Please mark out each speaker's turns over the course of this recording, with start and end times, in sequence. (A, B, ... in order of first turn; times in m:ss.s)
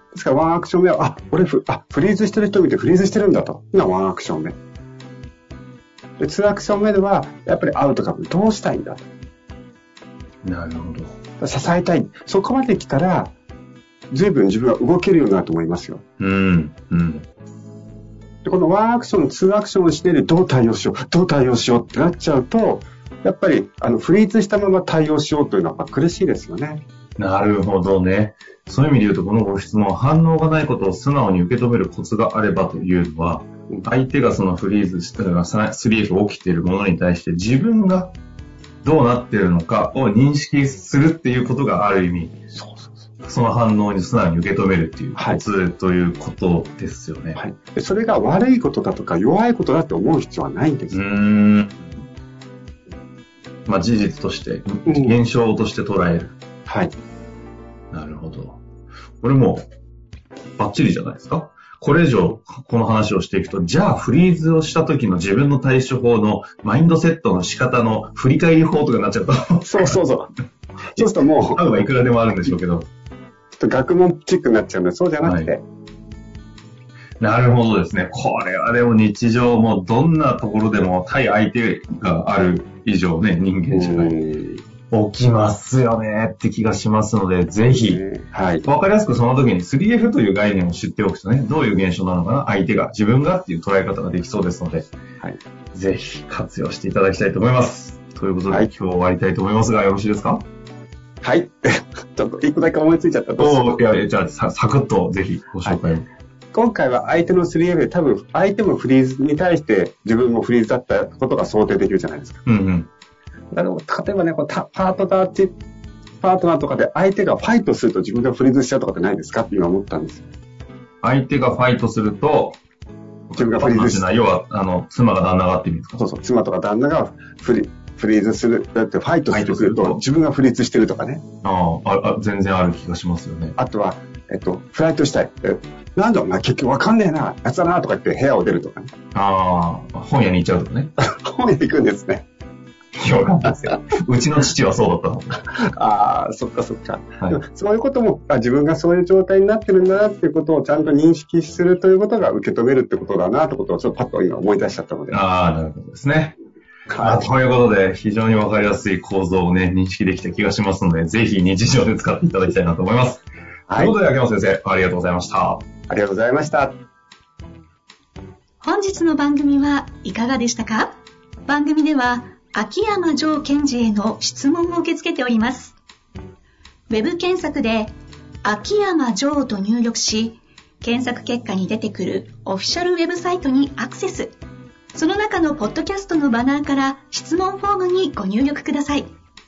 0:00.1-0:04.6 A
0:06.2-0:09.0 A
0:10.4-0:11.2 B
0:11.4-0:13.3 A
0:14.1-0:16.0 A
0:16.2-0:17.3 B
0:18.4-0:26.8 A
0:27.2-0:38.1 B
0:38.8-0:42.4 B
0:42.5-0:43.1 A
0:43.2-0:47.4 B
0:45.2-0:45.4 A
0:47.4-0:51.0 A
0:50.9-0:52.0 B
0:53.7-0:56.4 B
0:54.9-0:55.2 A
0:56.7-0:56.9 A
0:57.9-0:58.6 B
0:59.2-0:59.7 B
1:00.6-1:10.0 B
1:09.7-1:10.3 A
1:10.9-1:11.6 A
1:11.0-1:12.9 B
1:13.5-1:15.6 A
1:15.2-1:15.5 B
1:17.2-1:24.2 B
1:23.7-1:24.6 A
1:24.9-1:28.0 B
1:27.9-1:28.6 A
1:28.6-1:34.9 B
1:35.7-1:40.4 B
1:41.2-1:43.7 A
1:43.4-1:46.1 B
1:46.5-1:52.4 A
1:52.5-1:52.9 B
1:53.5-1:55.6 A
1:56.2-2:00.3 A
2:01.0-2:02.6 B
2:03.3-2:06.0 B
2:03.4-2:04.0 A
2:06.0-2:11.2 A
2:09.3-2:10.0 B
2:11.4-2:13.6 B
2:13.6-2:18.9 A
2:19.1-2:20.9 B
2:21.0-2:22.2 A
2:23.0-2:25.4 B
2:25.5-2:35.2 A
2:35.1-2:36.4 B
2:36.9-2:37.3 A
2:37.0-2:45.6 B
2:43.7-2:43.9 A
2:45.9-2:46.8 A
2:48.6-2:50.9 C
2:51.5-2:55.8 C
2:56.9-2:57.9 C
2:58.4-3:04.4 C
3:04.9-3:09.1 C